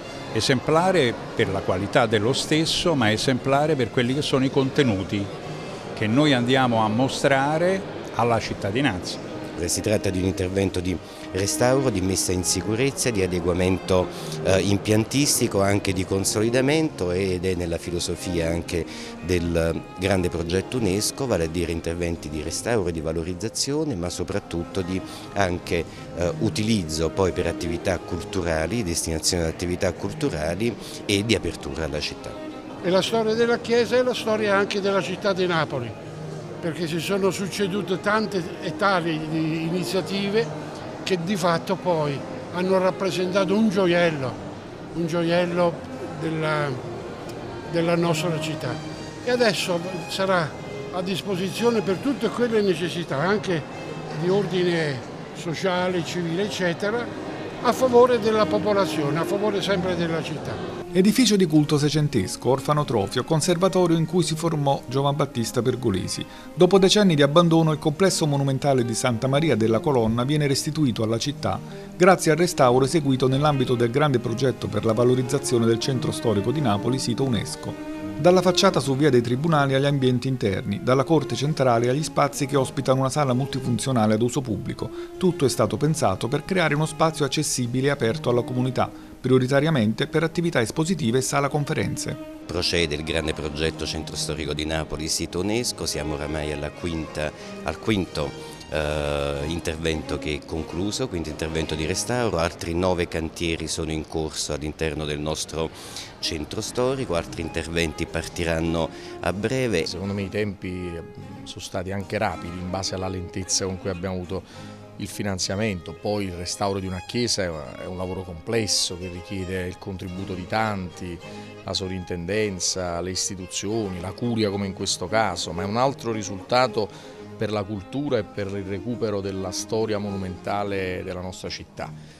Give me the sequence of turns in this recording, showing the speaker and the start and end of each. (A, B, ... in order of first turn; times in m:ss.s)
0:00.3-0:05.3 A
0:05.9-0:09.2 A
0:09.6-0:32.4 B
0:32.8-0:36.0 C
0:36.6-0:40.5 C
0:41.0-0:44.4 C
0:44.9-0:46.8 C
0:47.7-0:57.1 C
0:57.6-1:00.6 C
1:00.9-1:32.2 D
1:32.5-1:49.9 B
1:49.8-1:54.4 E
1:55.0-2:11.9 E